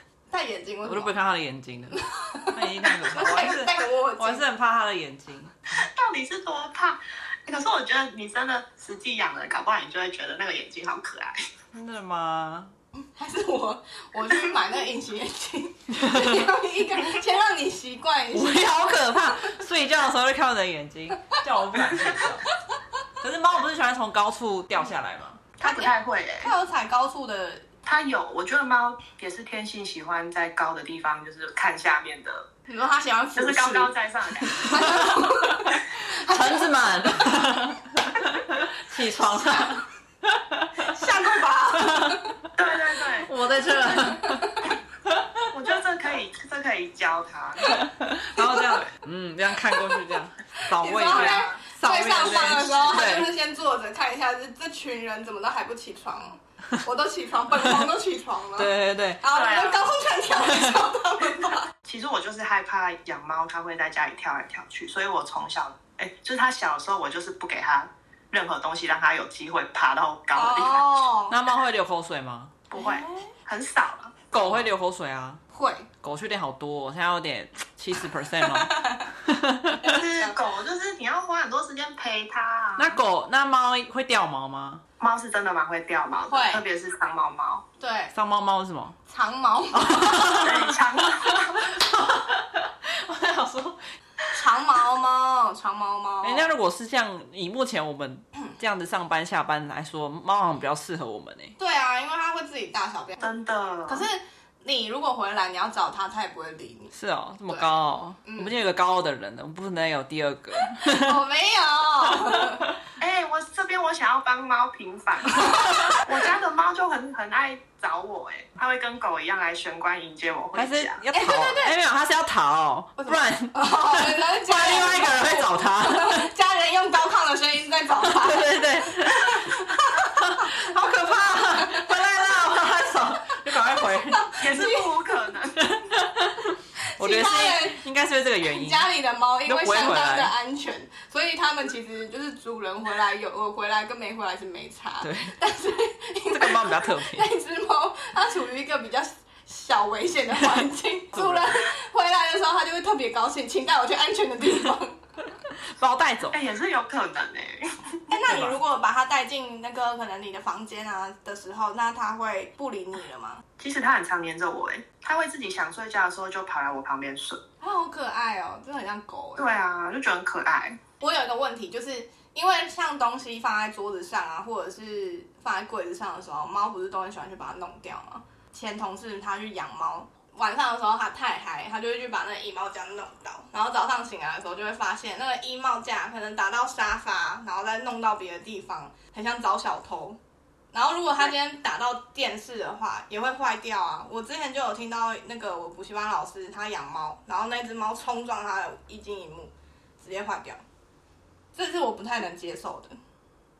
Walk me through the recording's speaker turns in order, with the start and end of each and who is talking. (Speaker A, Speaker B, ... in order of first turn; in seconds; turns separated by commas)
Speaker A: 0.3-1.1, Speaker B: 0.8-5.5, Speaker A: 1.9-4.5, Speaker C: 5.7-11.4, Speaker B: 11.7-12.7, Speaker A: 13.1-18.7, Speaker B: 15.9-16.5, Speaker B: 18.3-22.5, Speaker B: 23.2-25.5, Speaker C: 25.6-26.5, Speaker A: 25.6-27.6, Speaker C: 27.9-32.5, Speaker A: 32.7-33.9, Speaker C: 33.4-34.6, Speaker A: 34.5-36.8, Speaker B: 34.6-41.1, Speaker A: 39.2-39.7, Speaker A: 40.8-42.3, Speaker B: 41.7-42.3, Speaker C: 42.5-43.3, Speaker B: 43.2-45.3, Speaker A: 43.8-44.7, Speaker C: 45.5-47.7, Speaker A: 47.6-48.8, Speaker B: 47.7-53.3, Speaker A: 49.7-50.0, Speaker A: 50.6-61.7, Speaker C: 51.0-51.6, Speaker B: 58.6-59.2, Speaker C: 59.3-59.9, Speaker B: 60.4-60.7, Speaker C: 61.8-70.9, Speaker A: 70.3-71.4, Speaker B: 71.3-72.6, Speaker C: 72.7-74.6, Speaker A: 72.7-73.3, Speaker B: 74.3-75.4, Speaker A: 75.5-75.9, Speaker B: 76.0-80.0, Speaker A: 78.4-79.1, Speaker A: 79.8-80.3, Speaker C: 79.9-83.0, Speaker B: 82.8-84.8, Speaker C: 85.0-87.6, Speaker A: 86.3-86.6, Speaker A: 87.8-88.1, Speaker B: 88.1-89.0, Speaker A: 89.1-90.5, Speaker B: 89.7-93.8, Speaker C: 90.4-91.7, Speaker A: 94.3-96.5, Speaker B: 96.2-101.5, Speaker A: 101.6-103.3, Speaker C: 103.2-104.1, Speaker A: 103.9-106.9, Speaker B: 106.9-111.2, Speaker A: 107.5-107.7, Speaker A: 108.2-108.5, Speaker A: 110.7-112.7, Speaker B: 112.3-112.6, Speaker C: 113.0-121.0, Speaker A: 115.3-116.0, Speaker B: 115.5-116.0, Speaker B: 120.5-126.3, Speaker A: 121.1-121.7, Speaker A: 123.0-130.5, Speaker B: 128.0-134.2, Speaker A: 131.3-131.9, Speaker A: 134.1-134.9, Speaker C: 134.4-135.6, Speaker B: 135.6-138.9, Speaker A: 136.9-137.8, Speaker A: 138.5-155.0, Speaker B: 139.4-140.3, Speaker B: 145.0-145.3, Speaker B: 146.3-147.3, Speaker B: 151.1-151.6, Speaker B: 155.7-156.4, Speaker C: 156.3-157.9, Speaker A: 158.1-163.4, Speaker B: 158.3-158.6, Speaker C: 163.6-167.4, Speaker A: 167.6-169.5, Speaker C: 169.4-170.8, Speaker A: 171.0-190.2, Speaker A: 190.7-200.6, Speaker A: 201.5-202.9